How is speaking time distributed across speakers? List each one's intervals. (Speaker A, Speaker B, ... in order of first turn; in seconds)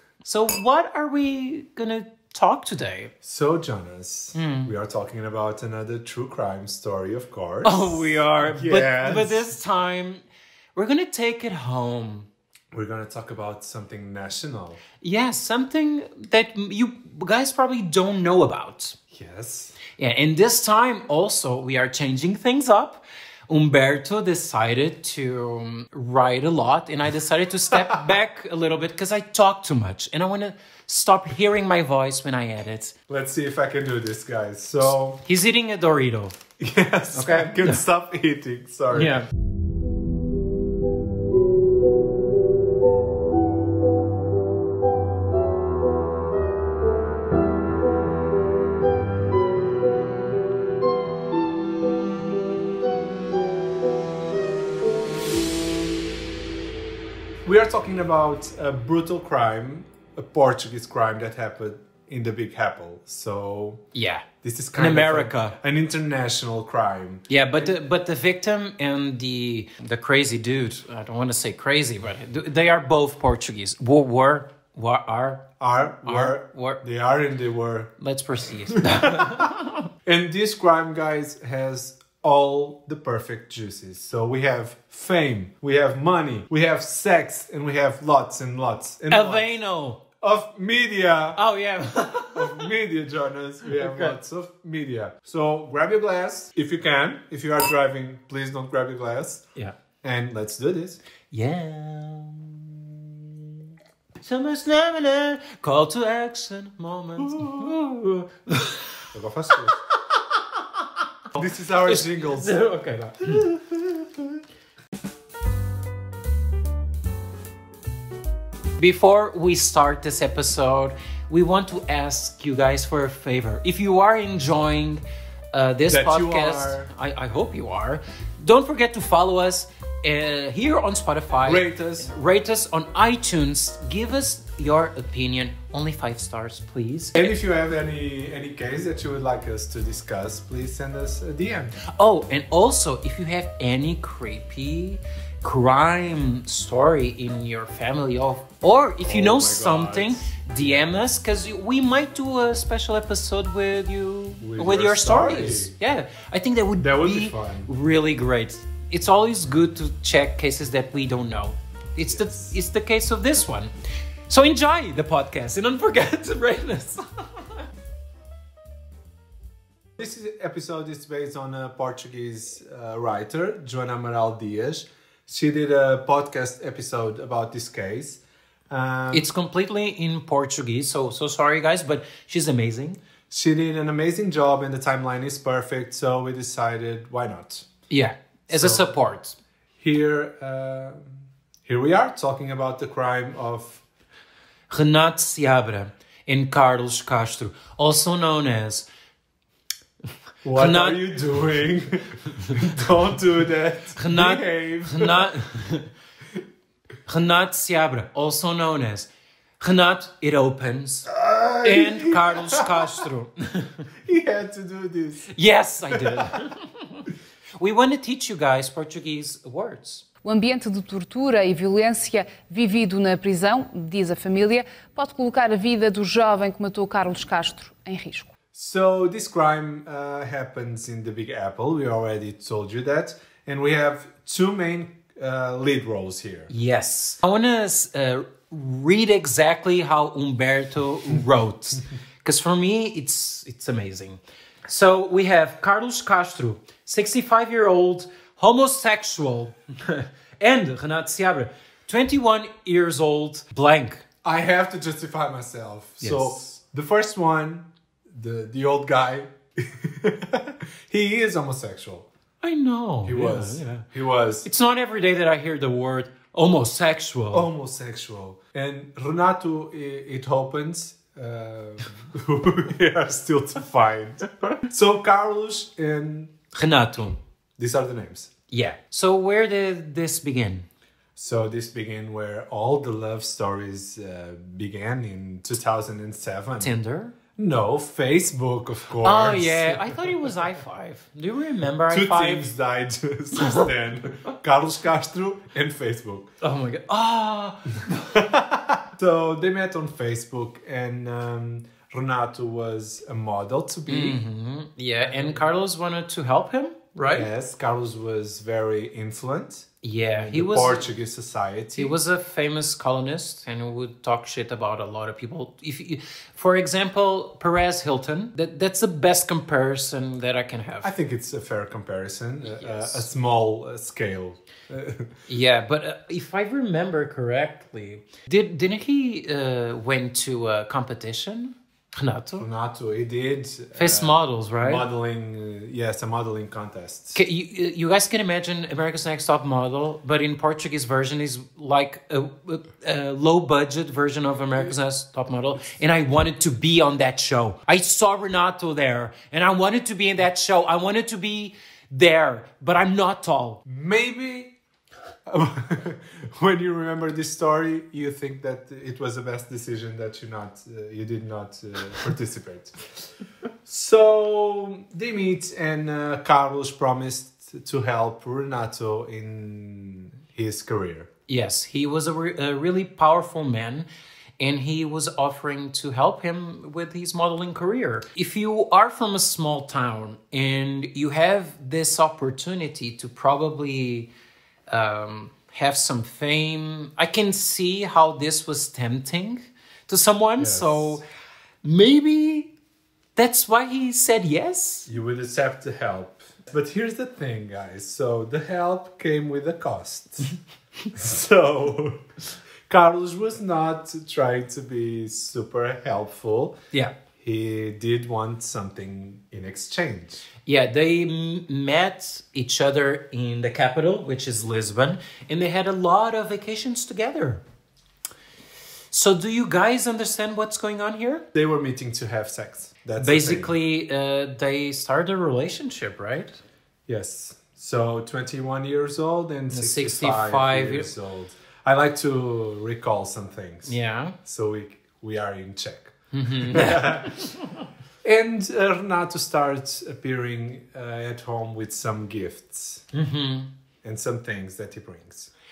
Speaker A: 0.2-3.1, 4.3-4.7, 7.6-10.2, 10.8-12.3, 15.0-19.0, 19.9-33.0, 35.2-36.4, 37.1-37.8, 38.9-39.3, 63.9-65.6, 67.3-75.5, 76.0-76.8, 78.0-79.8, 89.1-90.0, 91.4-92.7, 93.7-94.2, 101.3-103.1, 104.2-109.8, 110.5-113.5, 118.8-125.0, 125.5-137.3, 141.9-163.7, 164.3-167.5, 179.1-183.0, 187.9-189.4, 194.7-198.9, 200.5-201.0, 204.0-205.9, 207.1-211.1, 211.6-213.8, 215.3-220.1, 236.5-254.1, 256.0-256.4, 262.4-263.9, 264.4-267.5, 276.5-277.2, 278.5-280.7, 286.6-287.2, 289.0-292.5, 296.4-298.2, 303.9-307.3, 309.8-310.9, 311.8-320.9, 322.4-323.1, 325.3-332.5, 333.8-334.9, 337.1-353.6, 371.3-373.9, 374.4-384.1, 384.7-391.0, 391.6-392.5, 393.2-394.9, 410.5-417.4, 418.9-421.3, 423.0-426.4, 429.5-430.9, 433.6-434.2, 436.1-437.5, 442.9-443.5
Speaker B: 3.2-9.6, 12.7-14.8, 19.1-19.8, 27.8-28.1, 33.1-35.2, 36.6-39.2, 57.4-63.9, 64.4-67.8, 75.6-78.0, 78.8-79.5, 80.0-89.5, 90.2-91.4, 92.3-99.5, 100.0-101.0, 107.2-107.8, 109.1-109.8, 111.3-114.4, 125.9-126.9, 131.4-132.1, 137.2-141.8, 149.0-150.3, 154.4-155.8, 156.8-157.7, 162.1-162.5, 170.0-179.3, 183.3-187.7, 188.5-188.9, 189.8-193.8, 200.4-205.3, 211.1-213.1, 214.1-215.3, 215.9-216.3, 228.5-236.5, 254.2-262.1, 263.0-264.5, 267.3-276.3, 277.6-278.3, 281.2-286.7, 287.4-290.4, 291.9-296.3, 298.1-304.2, 305.0-305.4, 307.1-312.0, 320.8-325.2, 332.4-337.2, 353.7-354.6, 355.3-363.1, 363.7-371.1, 390.4-391.0, 394.9-400.4, 400.9-402.1, 402.7-406.6, 407.2-410.3, 421.3-423.5, 426.9-437.4, 438.0-442.9, 443.8-445.3
Speaker C: 220.2-228.3